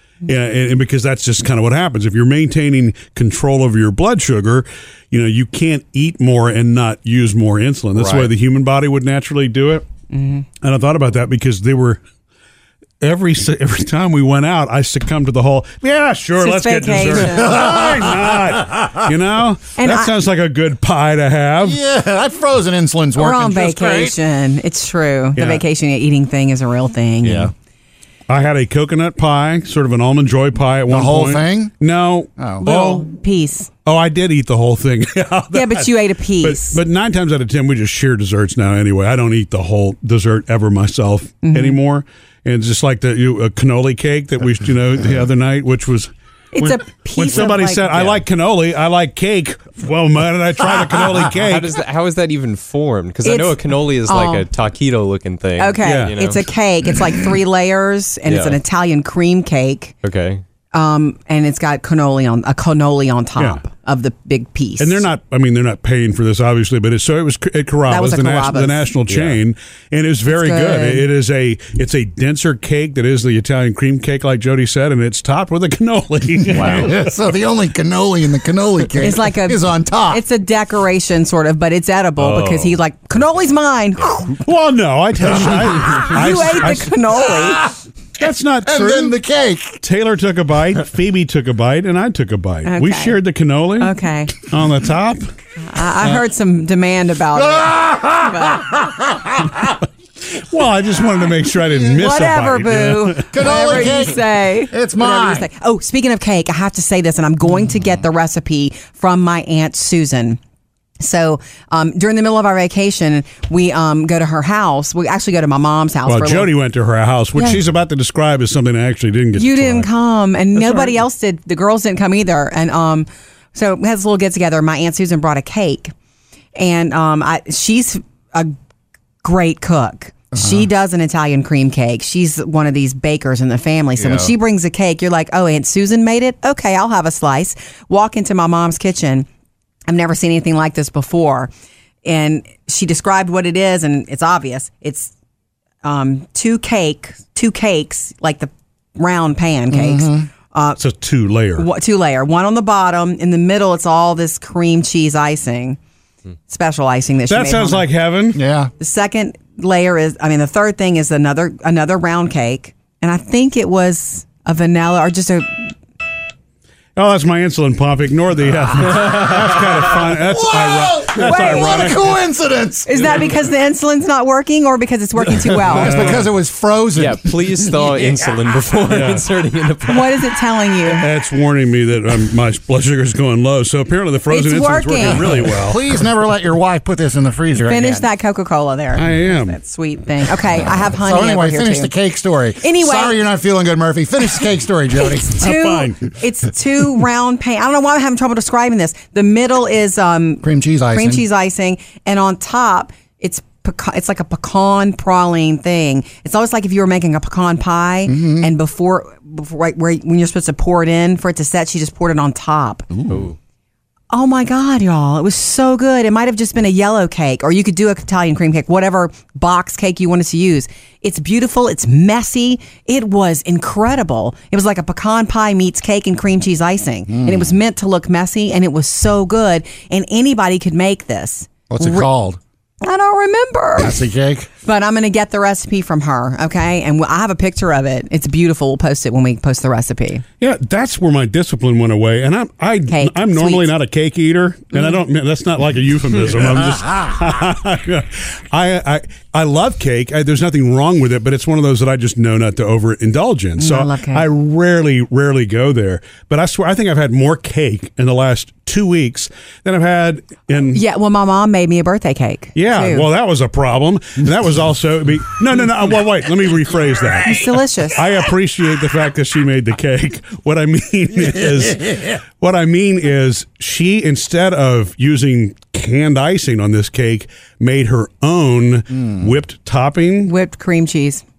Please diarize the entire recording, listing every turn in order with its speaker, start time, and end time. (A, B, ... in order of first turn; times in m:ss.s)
0:00.2-0:09.9 A
0:08.0-0:08.3 B
0:10.1-0:10.4 C
0:10.6-0:12.0 A
0:13.0-0:21.8 A
0:16.4-0:17.6 C
0:17.5-0:18.8 B
0:19.8-0:20.1 C
0:21.6-0:24.2 B
0:23.2-0:27.5 C
0:25.4-0:25.6 A
0:27.2-0:27.5 D
0:28.3-0:33.1 A
0:30.9-0:31.7 B
0:32.4-0:32.7 B
0:32.6-0:33.7 C
0:33.8-0:51.7 A
0:35.5-0:36.8 C
0:41.4-0:41.8 C
0:46.5-0:47.9 C
0:47.9-0:48.2 D
0:51.4-0:56.5 D
0:53.2-0:54.5 C
0:55.6-0:59.9 C
0:55.8-0:56.1 A
0:58.3-0:58.6 D
1:00.0-1:00.4 D
1:00.7-1:05.1 C
1:03.4-1:03.6 A
1:04.8-1:17.2 A
1:07.9-1:08.9 C
1:09.1-1:09.4 D
1:10.3-1:11.1 C
1:16.5-1:20.2 B
1:16.5-1:16.9 D
1:19.0-1:24.4 C
1:22.2-1:22.8 D
1:24.4-1:27.0 A
1:25.8-1:27.8 C
1:28.2-1:29.2 A
1:28.7-1:29.8 B
1:29.8-1:35.3 A
1:32.6-1:33.2 C
1:33.8-1:34.3 C
1:35.6-1:38.7 C
1:37.5-1:39.5 B
1:40.3-1:43.5 A
1:41.9-1:50.4 C
1:43.3-1:45.5 B
1:51.0-1:56.5 C
1:56.0-1:59.9 A
1:59.4-2:05.9 C
2:06.6-2:08.5 C
2:09.2-2:19.3 C
2:14.0-2:14.3 B
2:19.9-2:21.5 C
2:22.0-2:25.1 C
2:25.8-2:30.8 C
2:29.7-2:30.3 B
2:30.8-2:31.7 A
2:31.6-2:35.8 C
2:36.5-2:37.9 C
2:37.3-2:38.4 A
2:38.4-2:38.7 B
2:38.8-2:45.7 C
2:47.0-2:52.2 A
2:50.2-2:53.2 B
2:51.2-2:52.0 C
2:52.9-2:56.2 C
2:55.6-2:58.1 B
2:55.7-2:56.2 A
2:57.0-3:00.3 D
2:58.9-2:59.2 A
2:59.9-3:01.1 C
3:00.9-3:05.8 A
3:04.3-3:05.3 C
3:05.2-3:08.0 B
3:07.7-3:11.9 C
3:08.9-3:09.6 A
3:11.0-3:15.4 B
3:12.6-3:13.2 C
3:15.0-3:33.0 C
3:15.4-3:16.0 A
3:20.4-3:21.2 B
3:28.1-3:28.5 B
3:33.1-3:33.4 D
3:34.1-3:52.1 C
3:51.7-3:52.4 B
3:52.8-3:54.0 C
3:53.8-3:54.5 B
3:54.6-4:00.2 C
4:00.4-4:20.8 A
4:02.9-4:03.7 C
4:13.6-4:14.2 C
4:20.7-4:23.1 C
4:22.6-4:40.3 A
4:27.2-4:28.0 C
4:40.3-4:41.2 C